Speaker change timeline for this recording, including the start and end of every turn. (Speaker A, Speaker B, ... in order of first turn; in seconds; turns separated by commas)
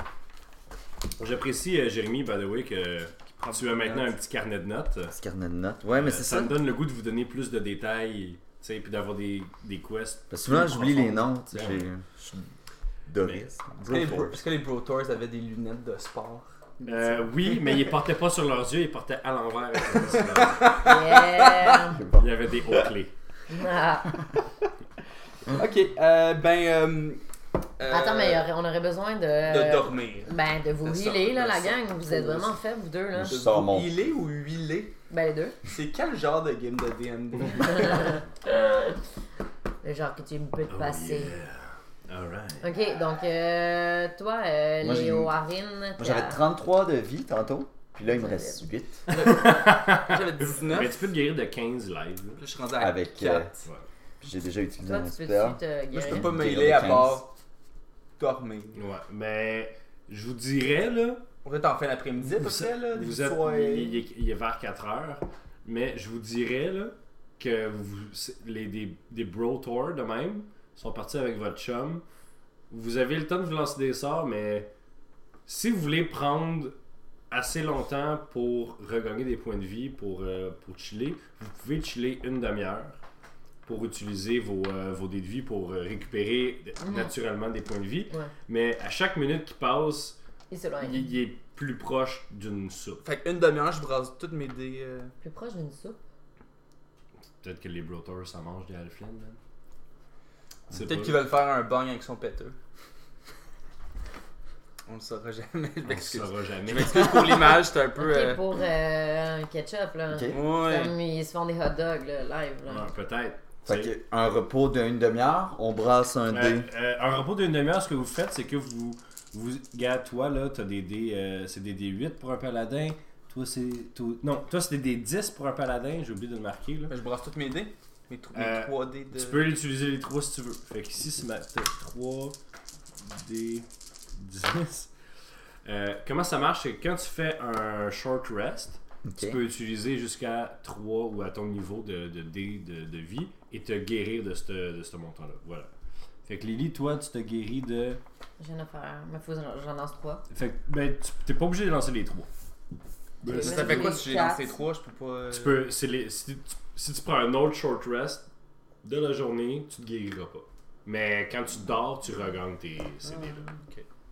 Speaker A: 1.2-5.1, Speaker B: 3.5-4.1, Speaker C: 5.1-6.6, Speaker A: 5.9-11.9, Speaker C: 10.3-12.5, Speaker C: 13.1-14.4, Speaker B: 13.9-17.8, Speaker A: 16.8-20.8, Speaker B: 20.1-21.8, Speaker D: 20.8-22.0, Speaker C: 21.9-22.3, Speaker A: 22.1-23.1, Speaker D: 23.5-24.2, Speaker B: 25.5-27.2, Speaker B: 27.8-28.5, Speaker D: 27.9-33.4, Speaker B: 29.5-32.6, Speaker C: 33.1-33.9, Speaker B: 33.3-34.9, Speaker D: 35.1-35.6, Speaker B: 35.6-38.2, Speaker D: 37.6-39.0, Speaker D: 39.8-41.3, Speaker A: 40.7-42.6, Speaker D: 42.6-46.4, Speaker C: 44.8-45.4, Speaker C: 46.0-49.2, Speaker D: 48.1-48.6, Speaker A: 49.1-52.4, Speaker B: 49.1-51.0, Speaker B: 52.4-53.6, Speaker C: 52.8-53.5, Speaker C: 54.2-57.2, Speaker D: 54.8-56.4, Speaker B: 56.0-57.3, Speaker B: 58.2-58.8, Speaker A: 58.7-61.2, Speaker B: 61.4-64.0, Speaker A: 62.2-72.0, Speaker A: 72.7-74.7, Speaker A: 75.5-76.7, Speaker A: 77.3-83.0, Speaker A: 83.6-90.2, Speaker D: 86.8-87.1, Speaker D: 90.5-91.0, Speaker A: 90.8-93.0, Speaker B: 93.0-95.1, Speaker D: 95.2-96.0, Speaker A: 97.4-99.4, Speaker A: 100.7-101.2, Speaker B: 100.7-102.5, Speaker B: 104.8-108.4, Speaker A: 105.8-107.5, Speaker D: 108.0-112.9, Speaker C: 110.1-110.4, Speaker B: 110.3-110.9, Speaker A: 112.7-113.9, Speaker C: 113.7-116.7, Speaker A: 116.3-126.9, Speaker B: 126.9-129.5, Speaker A: 128.3-132.3, Speaker A: 133.0-134.9, Speaker A: 135.6-145.7, Speaker C: 139.1-139.4, Speaker A: 146.2-148.0, Speaker D: 148.4-150.2, Speaker A: 150.3-152.3, Speaker A: 153.2-153.9, Speaker D: 153.2-154.6, Speaker B: 153.2-155.6, Speaker A: 155.3-158.2, Speaker A: 158.8-163.6, Speaker B: 163.1-163.9